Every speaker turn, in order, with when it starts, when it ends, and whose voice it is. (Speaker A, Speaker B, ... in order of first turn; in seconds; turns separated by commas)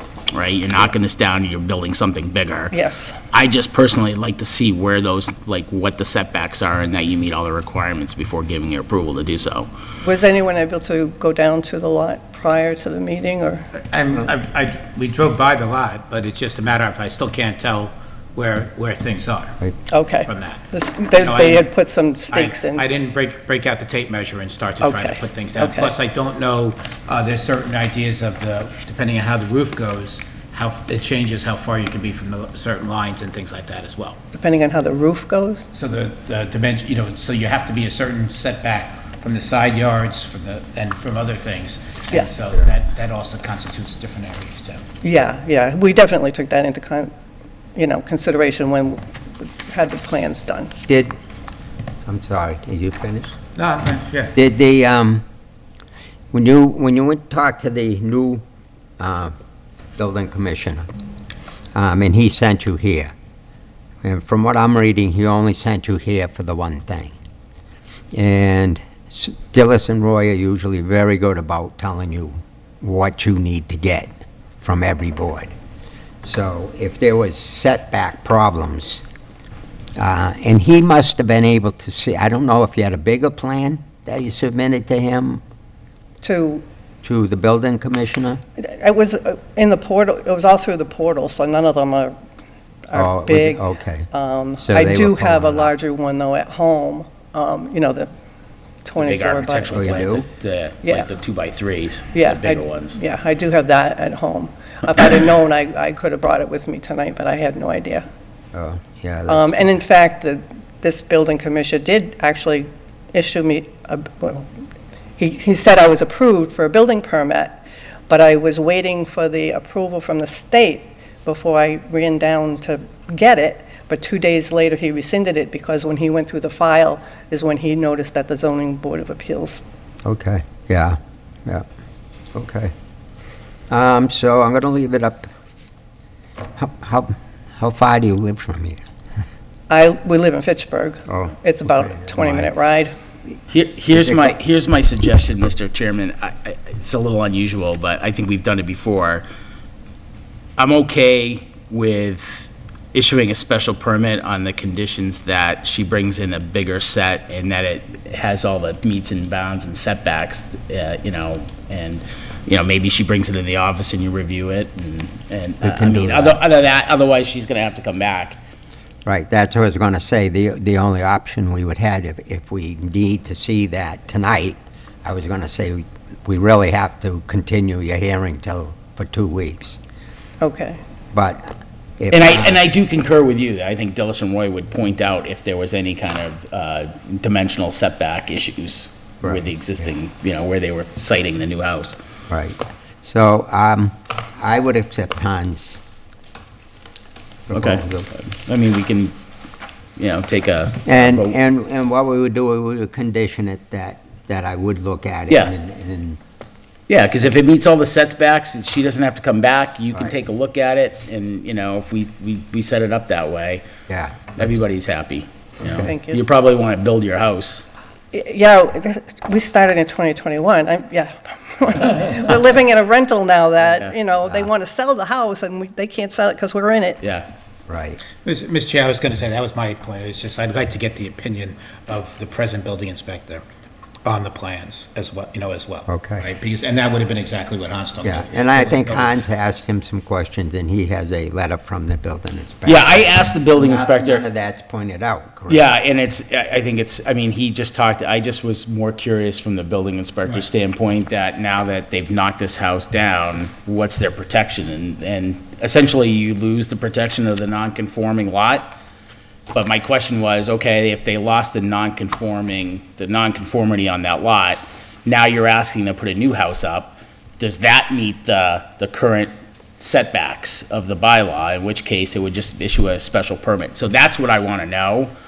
Speaker A: 0.3-2.8, Speaker B: 2.7-3.2, Speaker A: 3.3-9.7, Speaker B: 10.0-13.7, Speaker C: 13.8-19.6, Speaker B: 19.9-22.8, Speaker C: 20.2-20.6, Speaker C: 21.2-21.7, Speaker C: 22.3-34.2, Speaker B: 24.8-25.9, Speaker B: 34.3-35.7, Speaker C: 35.7-44.8, Speaker B: 45.0-47.1, Speaker B: 47.8-50.7, Speaker D: 50.9-51.1, Speaker D: 52.1-53.4, Speaker C: 53.6-54.3, Speaker D: 54.4-55.2, Speaker D: 56.3-58.4, Speaker D: 59.0-59.3, Speaker D: 60.0-60.9, Speaker D: 61.7-63.1, Speaker D: 64.0-67.2, Speaker D: 68.1-74.1, Speaker D: 74.6-75.5, Speaker D: 76.2-79.0, Speaker D: 80.0-85.4, Speaker B: 86.2-86.7, Speaker D: 87.0-88.4, Speaker B: 88.6-92.2, Speaker B: 92.9-98.1, Speaker D: 92.9-94.1, Speaker D: 94.6-95.7, Speaker B: 98.8-100.0, Speaker A: 99.0-103.0, Speaker D: 99.7-100.3, Speaker B: 100.8-101.1, Speaker B: 102.1-108.1, Speaker D: 108.5-109.7, Speaker B: 109.3-114.5, Speaker B: 115.2-129.6, Speaker D: 130.1-131.7, Speaker D: 132.3-132.7, Speaker D: 133.7-135.3, Speaker D: 136.6-138.8, Speaker B: 139.7-142.9, Speaker D: 141.1-142.5, Speaker A: 143.5-149.2, Speaker D: 143.9-144.3, Speaker A: 150.6-168.4, Speaker D: 165.6-166.4, Speaker D: 169.1-179.8, Speaker B: 180.4-180.8, Speaker D: 181.1-181.5, Speaker D: 182.0-182.7, Speaker A: 182.1-192.0, Speaker D: 189.2-189.5, Speaker D: 192.3-195.8, Speaker D: 197.5-198.1, Speaker A: 197.5-199.2, Speaker A: 200.0-201.3, Speaker D: 200.9-206.2, Speaker A: 206.9-213.6, Speaker D: 213.9-214.6, Speaker A: 214.3-217.7, Speaker D: 215.6-215.9, Speaker B: 215.8-216.2, Speaker B: 218.1-227.0, Speaker A: 223.6-223.9, Speaker A: 227.0-227.3, Speaker D: 227.7-228.0, Speaker C: 228.2-233.4, Speaker C: 234.1-239.2, Speaker D: 235.9-236.3, Speaker D: 238.0-245.7, Speaker A: 242.7-244.2, Speaker A: 245.5-258.8, Speaker A: 259.5-275.1